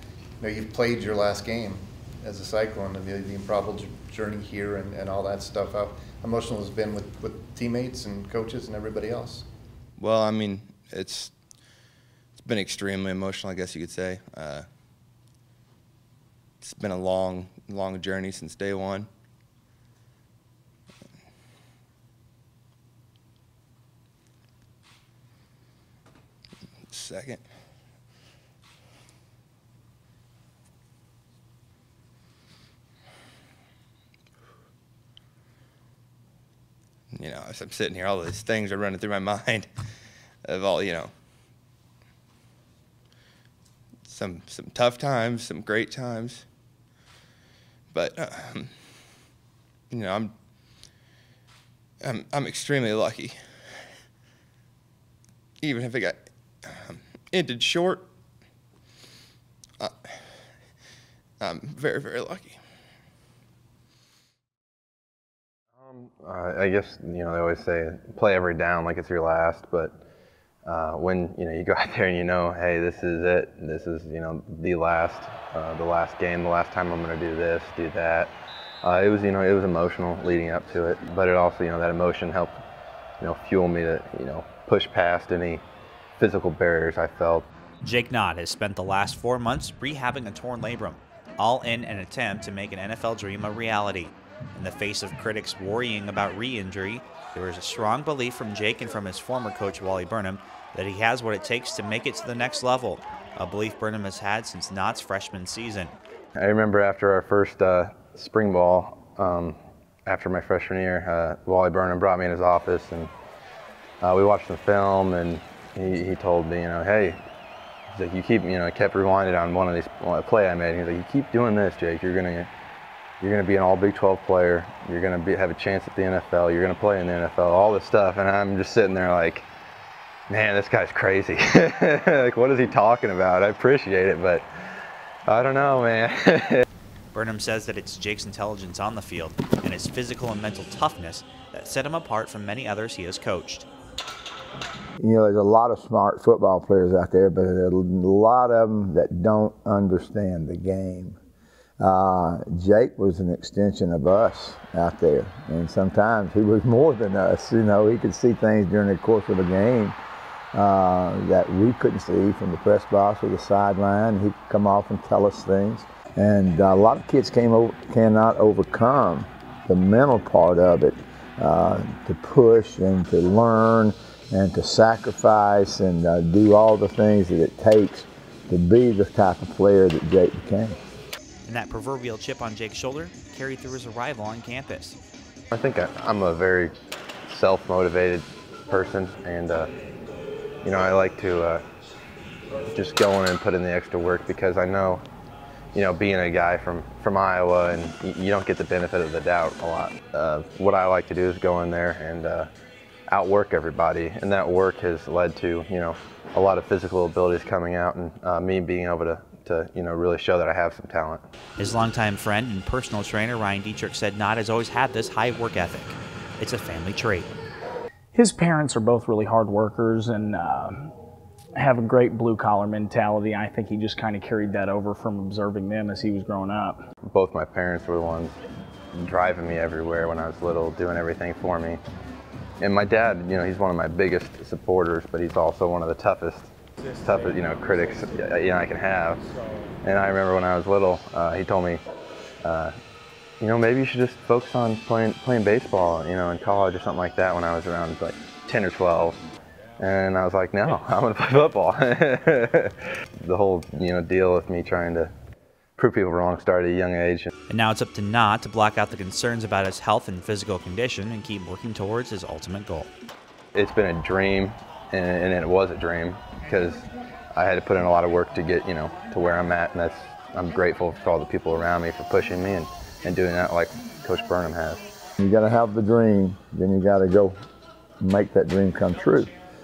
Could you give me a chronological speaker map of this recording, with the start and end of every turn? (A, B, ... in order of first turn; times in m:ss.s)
0:00.4-0:09.5 A
0:10.0-0:11.3 B
0:12.4-0:14.7 B
0:16.6-0:19.1 B
0:26.9-0:27.4 B
0:37.1-0:39.7 B
0:40.4-0:41.1 B
0:44.0-0:46.4 B
0:47.9-0:48.7 B
0:49.9-0:50.3 B
0:52.0-0:53.4 B
0:55.6-0:58.1 B
1:01.4-1:02.6 B
1:05.7-1:10.0 C
1:10.6-1:22.6 C
1:23.2-1:25.6 C
1:26.2-1:27.5 C
1:27.8-1:46.0 D
1:46.4-1:53.1 C
1:54.0-1:57.2 C
1:57.9-2:02.5 C
2:03.2-2:09.5 C
2:10.3-2:14.4 C
2:15.3-2:16.6 C
2:17.1-2:23.7 D
2:25.0-2:31.2 E
2:31.8-2:40.0 E
2:40.5-3:00.8 E
3:01.4-3:05.0 D
3:05.5-3:06.7 C
3:07.3-3:09.7 C
3:10.6-3:11.6 C
3:12.7-3:15.0 C
3:15.7-3:22.5 C
3:23.1-3:31.2 C
3:31.6-3:37.3 D
3:38.1-3:40.9 F
3:41.6-3:46.8 F
3:47.1-3:48.4 C
3:48.9-3:51.8 C
3:52.6-3:59.2 C
3:59.8-4:01.8 C
4:02.4-4:02.7 C
4:03.4-4:09.2 C
4:09.8-4:15.1 C
4:15.8-4:17.3 C
4:17.5-4:22.9 D
4:23.5-4:34.8 C
4:35.2-4:37.4 E
4:38.0-4:39.3 E